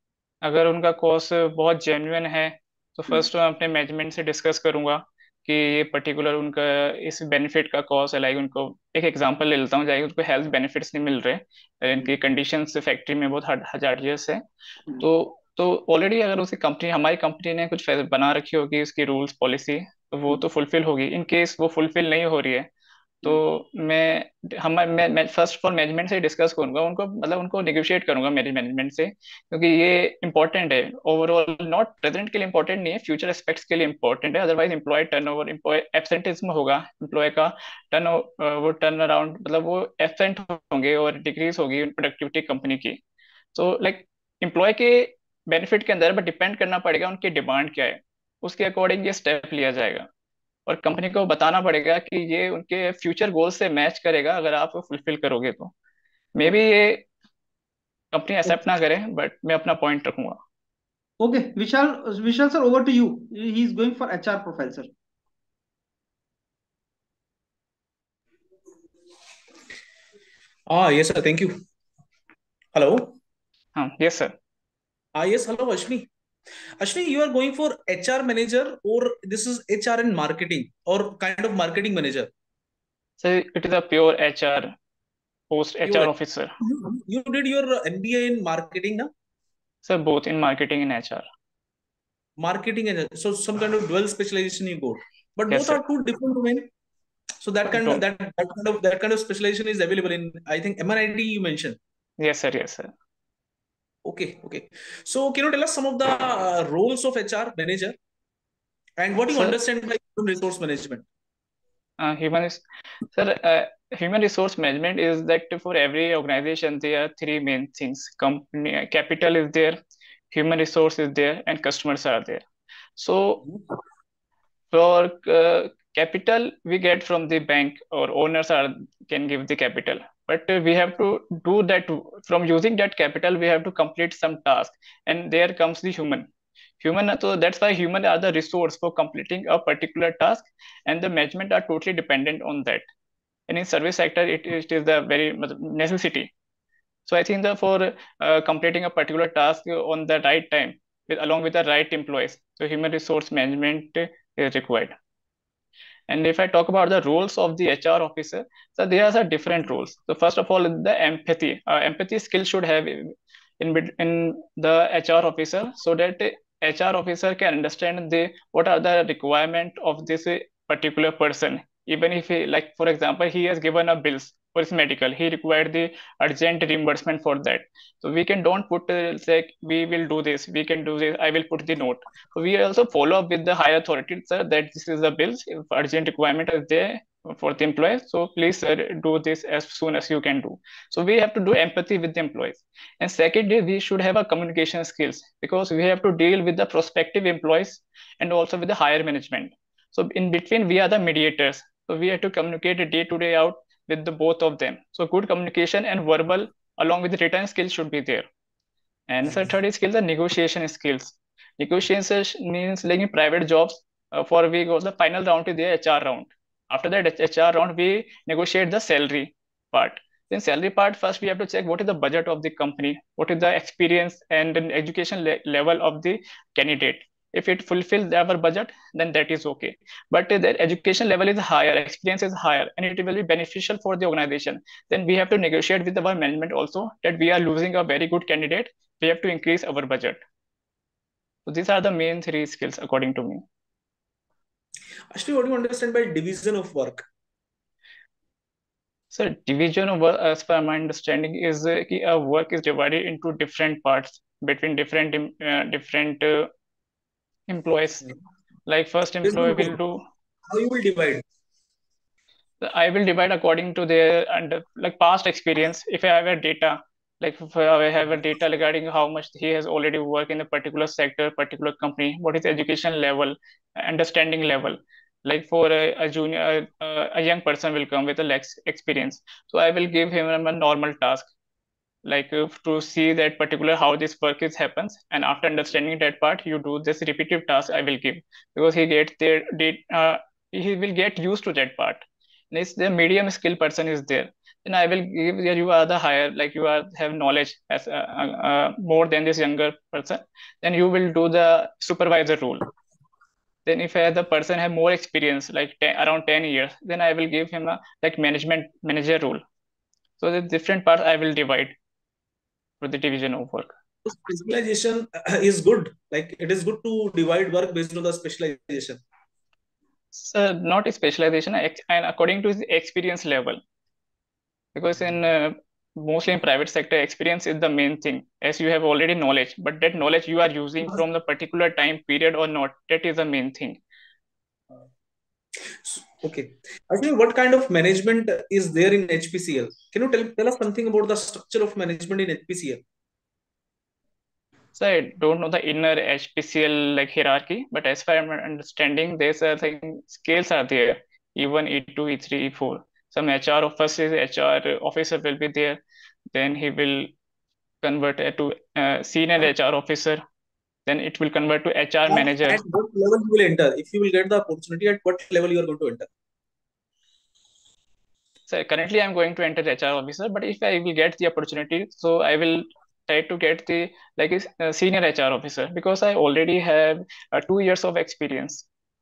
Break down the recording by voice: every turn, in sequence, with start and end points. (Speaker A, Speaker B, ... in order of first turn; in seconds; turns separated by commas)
Speaker A: 0.4-14.4, Speaker A: 15.0-22.7, Speaker A: 23.2-43.0, Speaker A: 43.5-50.1, Speaker A: 50.6-55.7, Speaker A: 56.4-57.1, Speaker A: 58.1-60.4, Speaker B: 61.2-64.9, Speaker C: 70.7-71.6, Speaker C: 72.7-73.1, Speaker A: 73.8-74.3, Speaker C: 75.1-76.1, Speaker C: 76.8-82.3, Speaker A: 83.2-84.7, Speaker A: 85.5-86.5, Speaker C: 85.9-89.1, Speaker A: 89.8-91.2, Speaker C: 92.4-96.7, Speaker A: 95.5-95.8, Speaker C: 97.4-101.8, Speaker A: 97.7-98.0, Speaker A: 102.2-102.9, Speaker C: 104.0-107.9, Speaker C: 109.0-111.0, Speaker A: 112.0-119.8, Speaker A: 120.3-122.4, Speaker A: 123.0-123.4, Speaker A: 124.7-136.3, Speaker A: 136.8-142.8, Speaker A: 143.5-146.3, Speaker A: 147.1-154.9, Speaker A: 156.1-208.3, Speaker A: 209.1-240.2, Speaker A: 241.4-243.4, Speaker C: 245.1-247.0, Speaker A: 249.1-256.5, Speaker A: 257.5-258.1, Speaker A: 258.7-260.0, Speaker C: 259.2-259.8, Speaker C: 260.5-261.2, Speaker A: 262.6-281.3, Speaker A: 282.0-302.7, Speaker A: 303.6-309.4, Speaker A: 310.2-311.7, Speaker A: 312.8-313.7, Speaker C: 314.1-319.0, Speaker A: 320.1-323.6, Speaker A: 324.8-333.8, Speaker C: 335.8-342.8, Speaker A: 344.8-355.8, Speaker A: 356.3-357.1, Speaker A: 357.8-360.2, Speaker A: 360.9-362.6, Speaker C: 362.1-366.1, Speaker A: 368.5-378.7